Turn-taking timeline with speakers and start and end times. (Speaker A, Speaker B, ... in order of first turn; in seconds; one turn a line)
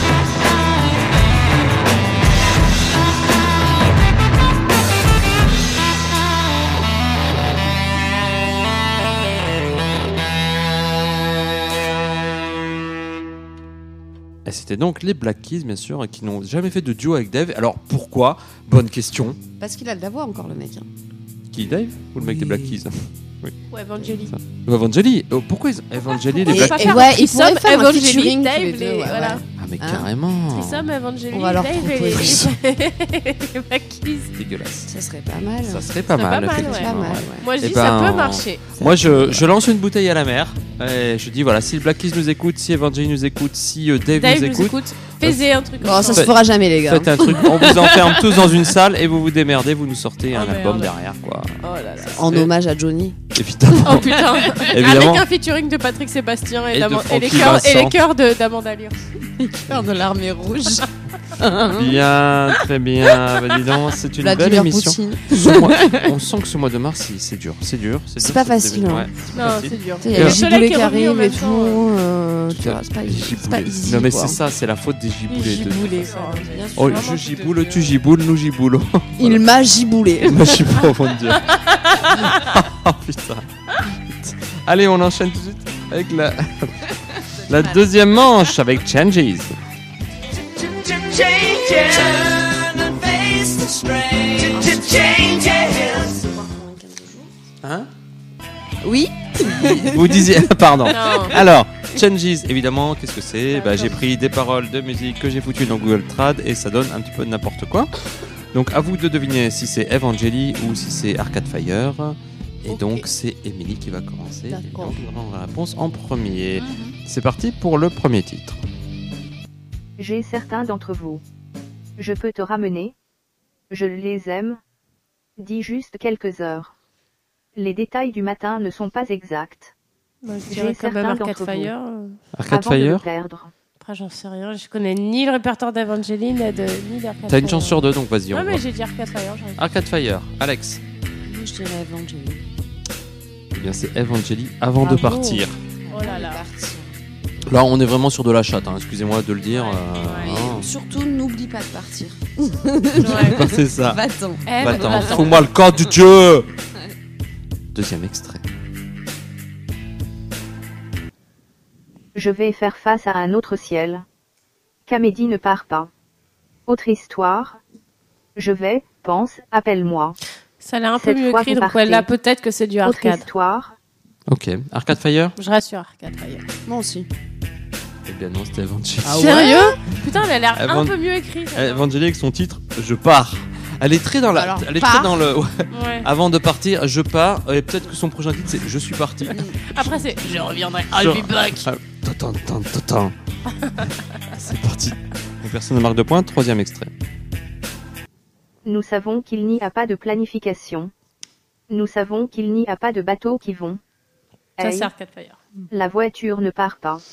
Speaker A: 14.4-19.4
Speaker B: 19.6-20.9
Speaker A: 21.5-23.5
Speaker B: 22.2-22.7
Speaker C: 23.7-24.3
Speaker A: 24.3-27.0
Speaker C: 26.1-29.4
Speaker B: 26.4-30.1
Speaker A: 29.6-30.9
Speaker C: 30.5-34.3
Speaker B: 31.3-32.5
Speaker A: 32.2-32.5
Speaker A: 34.4-34.9
Speaker B: 34.9-36.0
Speaker A: 35.6-45.4
Speaker C: 36.1-38.7
Speaker B: 36.5-37.5
Speaker B: 38.8-39.4
Speaker C: 44.1-46.3
Speaker B: 45.8-48.7
Speaker A: 46.1-52.5
Speaker C: 50.3-50.9
Speaker C: 51.6-52.3
Speaker B: 52.1-54.5
Speaker A: 53.3-55.2
Speaker C: 53.8-59.0
Speaker A: 56.7-58.0
Speaker B: 59.4-62.0
Speaker A: 61.7-70.4
Speaker B: 64.2-66.2
Speaker B: 68.2-69.1
Speaker C: 69.3-71.8
Speaker B: 70.0-74.4
Speaker A: 72.5-76.1
Speaker C: 75.3-77.9
Speaker B: 75.6-77.5
Speaker A: 76.7-79.4
Speaker B: 79.2-80.8
Speaker A: 80.2-89.5
Speaker C: 81.3-82.3
Speaker B: 87.5-87.8
Speaker D: 90.6-96.1
Speaker B: 94.3-97.3
Speaker A: 97.6-97.9
Speaker B: 98.8-101.4
Speaker A: 99.5-107.9
Speaker C: 100.9-101.4
Speaker C: 103.5-104.0
Speaker A: 108.5-118.6
Speaker C: 112.7-113.0
Speaker C: 114.5-115.0
Speaker E: 120.0-121.2
Speaker E: 122.0-122.9
Speaker E: 123.7-124.6
Speaker E: 125.4-126.7
Speaker E: 127.5-129.7
Speaker C: 130.2-132.2
Speaker E: 130.5-131.7
Speaker A: 132.3-133.0
Speaker E: 132.5-133.5
Speaker C: 133.8-139.7
Speaker A: 137.3-138.6
Speaker A: 139.6-140.8
Speaker B: 141.2-142.4
Speaker A: 143.5-145.6
Speaker B: 144.8-147.6
Speaker C: 145.9-146.4
Speaker A: 147.4-150.7
Speaker C: 149.4-150.3
Speaker B: 150.2-155.9
Speaker A: 153.0-156.5
Speaker C: 153.0-153.4
Speaker C: 154.5-155.4
Speaker A: 157.7-158.4
Speaker E: 162.1-164.0
Speaker E: 164.9-165.9
Speaker E: 166.7-167.6
Speaker E: 168.3-170.2
Speaker C: 170.6-173.3
Speaker E: 171.0-172.1
Speaker E: 172.8-173.7
Speaker A: 174.3-175.3
Speaker C: 175.3-176.4
Speaker B: 176.7-177.1
Speaker A: 178.1-179.5
Speaker B: 179.0-179.8
Speaker C: 179.1-181.9
Speaker A: 180.5-180.9
Speaker A: 181.5-189.4
Speaker B: 184.3-185.3
Speaker C: 185.7-186.1
Speaker B: 189.3-191.7
Speaker C: 189.7-190.6
Speaker A: 190.9-193.1
Speaker C: 193.6-193.9
Speaker A: 194.3-196.9
Speaker E: 198.6-200.9
Speaker E: 201.7-203.8
Speaker E: 204.6-204.9
Speaker C: 204.6-205.4
Speaker E: 205.7-207.0